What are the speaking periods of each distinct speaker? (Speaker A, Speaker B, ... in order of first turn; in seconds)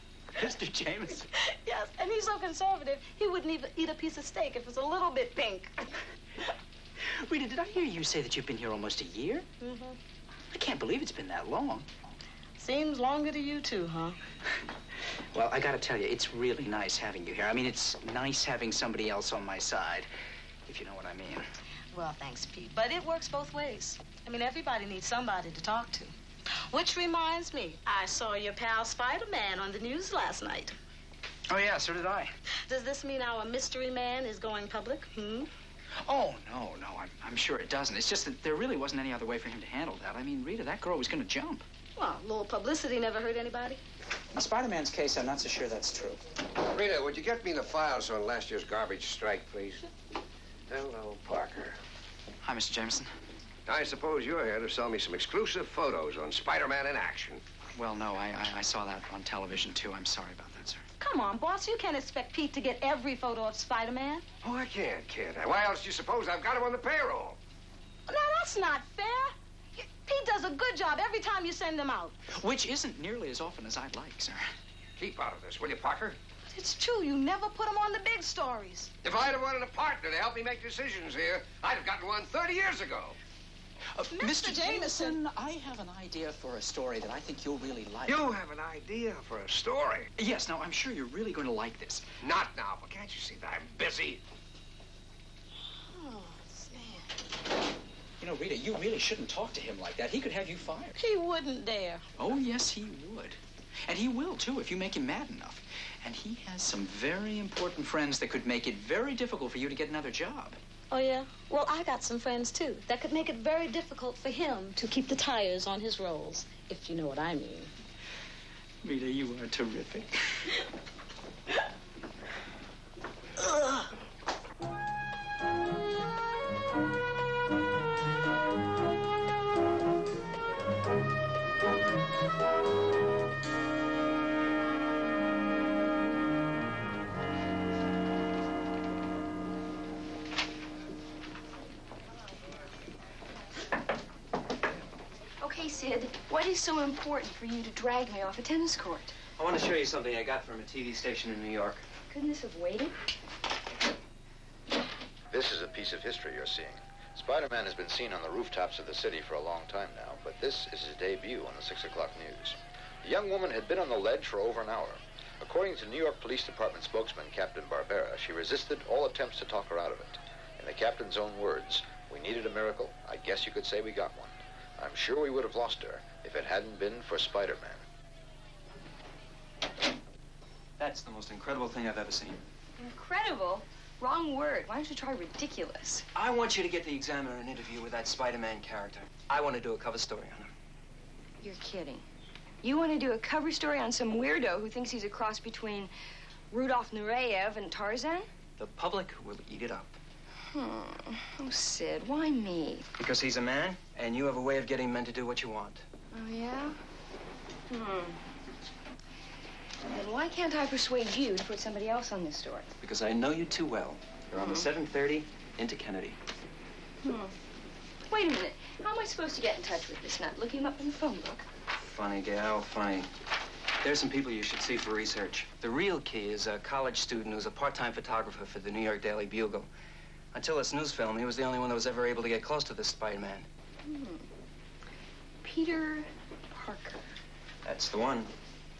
Speaker A: 0.3-1.3, 7.0-9.4, 10.5-11.9, 15.3-20.1, 20.6-21.4, 31.5-32.3, 36.0-41.6, 44.3-46.2, 52.4-53.1, 57.7-60.8, 72.3-74.4, 83.9-88.2, 90.2-92.0, 98.2-101.0, 102.2-110.6, 118.8-120.5
Speaker B: 1.4-5.8, 9.6-10.0, 12.6-14.2, 21.9-26.1, 26.7-30.7, 32.7-35.5, 42.0-43.8, 61.0-64.2, 68.1-72.1, 76.5-78.9, 84.1-85.2, 95.9-97.1, 101.0-102.0, 110.9-117.7
Speaker C: 46.7-49.8, 50.7-51.8, 53.7-57.4, 64.4-67.4, 75.0-76.2, 79.0-83.1, 88.0-90.1, 92.2-94.2
Speaker D: 145.4-149.1, 152.1-152.9, 182.8-186.0, 191.4-192.0, 192.6-195.9, 196.5-198.3, 200.5-202.8, 206.1-206.8, 207.7-208.2, 209.9-212.7, 214.4-214.7, 217.0-217.3, 218.1-221.4, 233.8-234.2, 235.4-237.0
Speaker E: 149.4-151.8, 180.8-182.4, 186.1-190.5, 198.6-200.0, 203.0-205.8, 212.8-216.2, 221.7-223.1, 223.8-229.7, 230.3-233.5, 237.6-238.3
Speaker F: 155.3-177.8